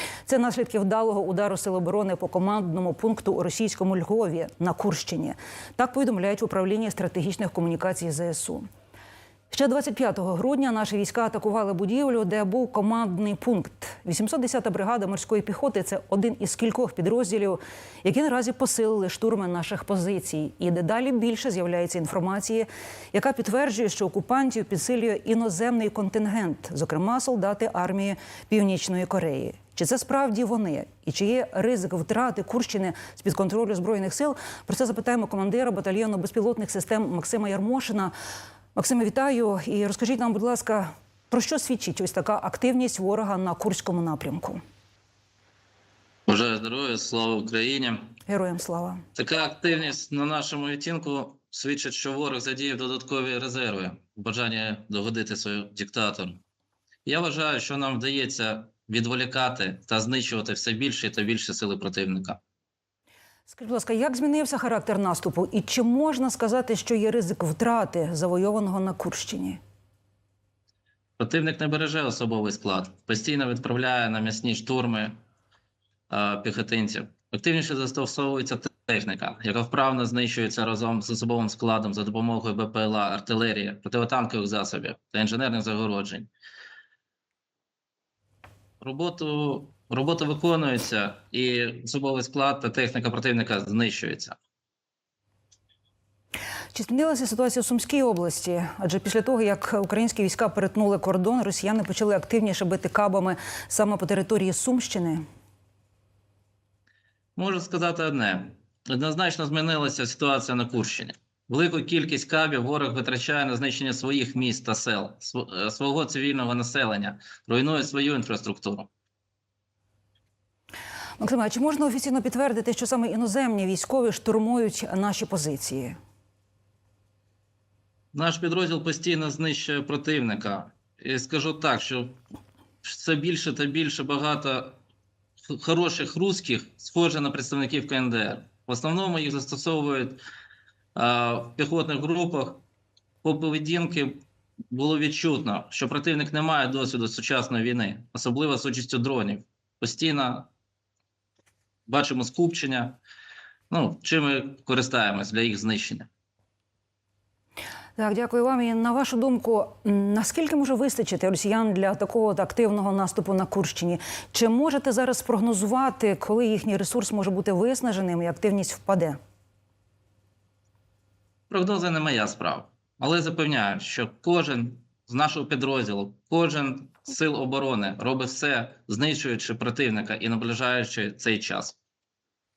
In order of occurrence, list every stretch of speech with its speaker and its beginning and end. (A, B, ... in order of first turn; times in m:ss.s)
0:00.2-0:08.6 A
0:09.5-0:38.1 A
0:38.7-0:44.6 A
0:46.3-0:48.2 B
0:48.3-0:49.0 A
0:49.1-0:56.4 B
0:57.0-1:02.4 B
1:03.5-1:09.6 A
1:11.2-1:15.1 B
1:16.1-1:26.3 B
1:28.8-1:34.4 B
1:36.7-1:45.2 A
1:47.4-1:58.9 B
2:01.2-2:06.0 A
2:08.1-2:12.2 B
2:12.8-2:14.8 B
2:15.5-2:20.2 B
2:20.9-2:22.6 B
2:23.2-2:30.5 B
2:31.9-2:33.0 B
2:33.7-2:36.1 B
2:38.0-2:49.2 A
2:51.5-3:01.8 B